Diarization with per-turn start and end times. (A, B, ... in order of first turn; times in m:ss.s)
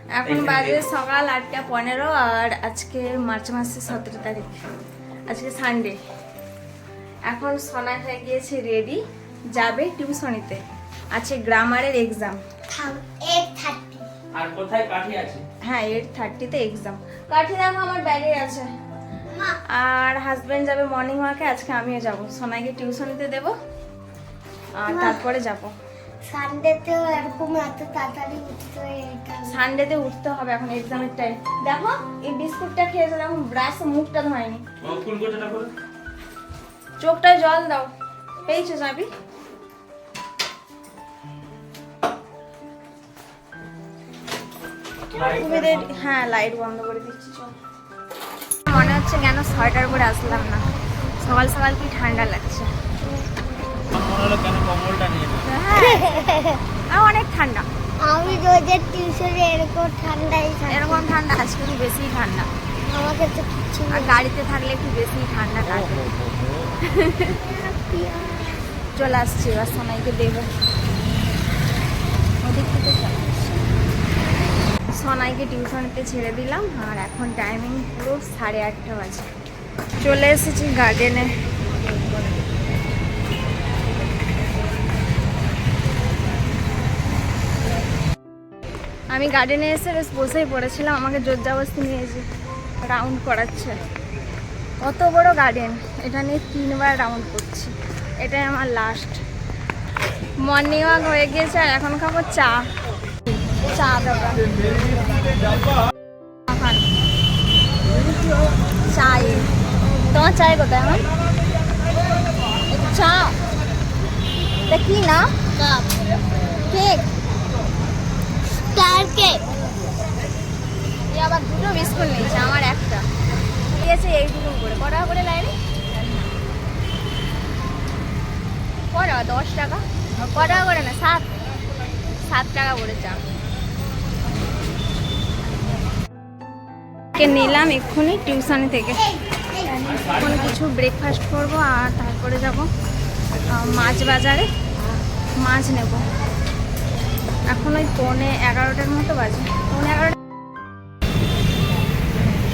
0:00.2-0:04.6 A
0:00.2-0:00.8 B
0:05.3-0:06.0 A
0:07.3-0:09.0 A
0:09.5-0:12.4 A
0:12.7-0:14.1 C
0:14.3-0:15.4 B
0:15.6-0:18.7 A
0:19.3-0:19.6 C
0:19.7-0:23.6 A
0:24.8-0:25.7 A
0:24.9-0:25.2 C
0:26.2-0:29.7 C
0:29.4-0:34.6 A
0:34.8-0:35.7 B
0:37.0-0:37.9 A
0:38.4-0:39.1 A
0:45.1-0:45.8 B
0:45.1-0:47.6 A
0:48.7-0:52.7 A
0:53.0-0:53.9 C
0:54.0-0:55.4 B
0:55.5-0:56.2 A
0:55.7-0:56.6 C
0:56.9-0:57.7 A
0:58.0-1:01.1 C
1:00.7-1:02.5 A
1:02.9-1:04.2 C
1:03.9-1:06.1 A
1:05.7-1:06.6 B
1:06.8-1:07.4 A
1:07.4-1:08.7 C
1:09.0-1:10.5 A
1:12.4-1:13.3 A
1:15.0-1:19.3 A
1:20.0-1:21.3 A
1:29.1-1:32.3 A
1:32.8-1:33.8 A
1:34.8-1:39.2 A
1:40.4-1:42.7 A
1:43.6-1:44.4 A
1:46.5-1:46.9 A
1:48.9-1:49.5 A
1:50.1-1:51.0 A
1:52.7-1:53.4 A
1:54.7-1:55.5 A
1:56.7-1:57.1 A
1:58.6-1:59.4 C
2:01.1-2:03.1 A
2:03.7-2:06.3 A
2:08.9-2:11.3 A
2:12.2-2:13.2 A
2:17.2-2:19.1 A
2:19.8-2:22.7 A
2:23.5-2:24.5 A
2:25.4-2:26.1 A
2:27.5-2:30.2 A